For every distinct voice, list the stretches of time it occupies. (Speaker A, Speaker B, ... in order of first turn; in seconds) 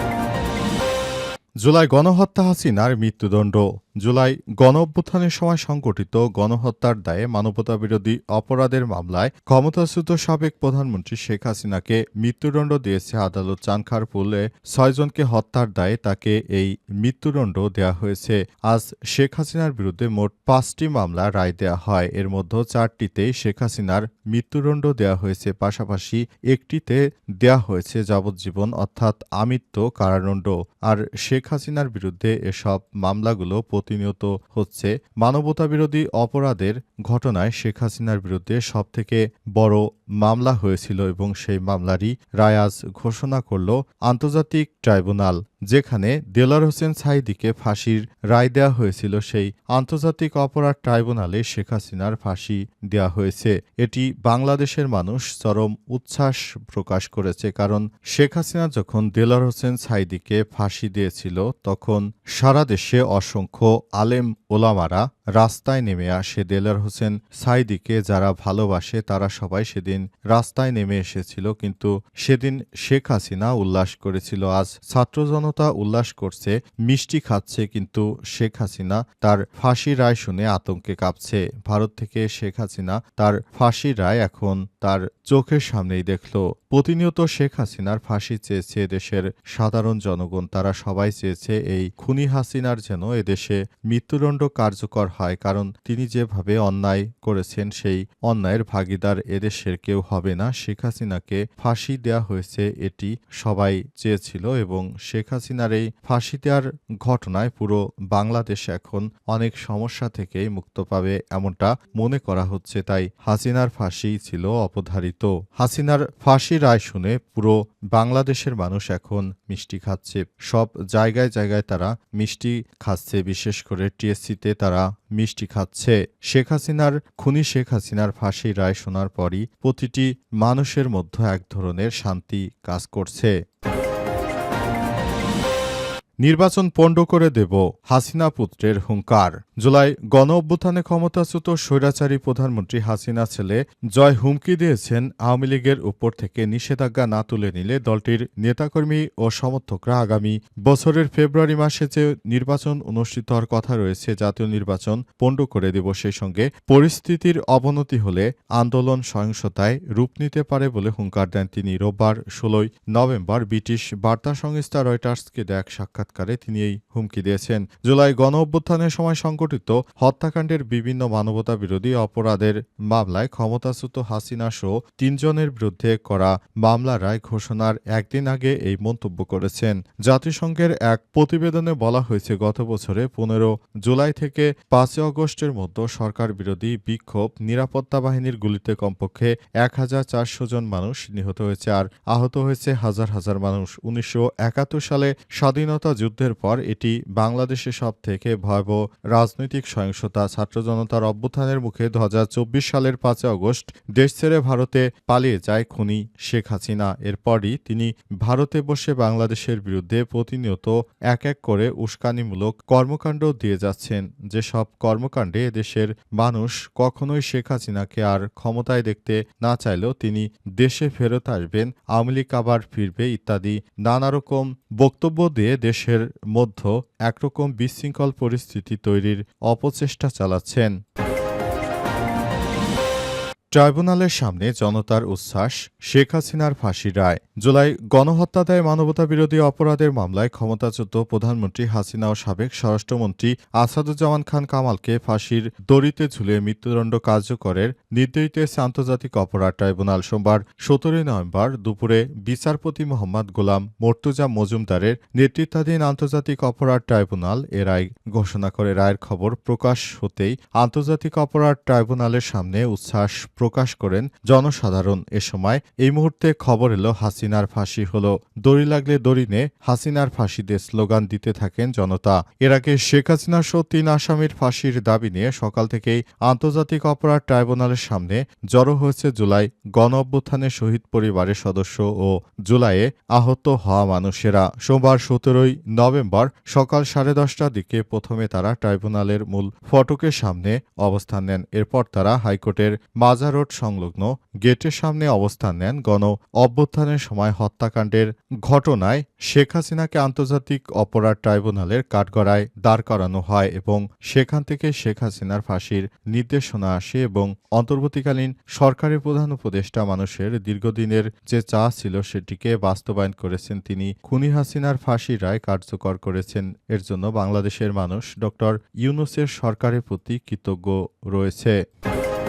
Speaker A: 1.6-133.3, 136.2-230.7, 233.5-321.6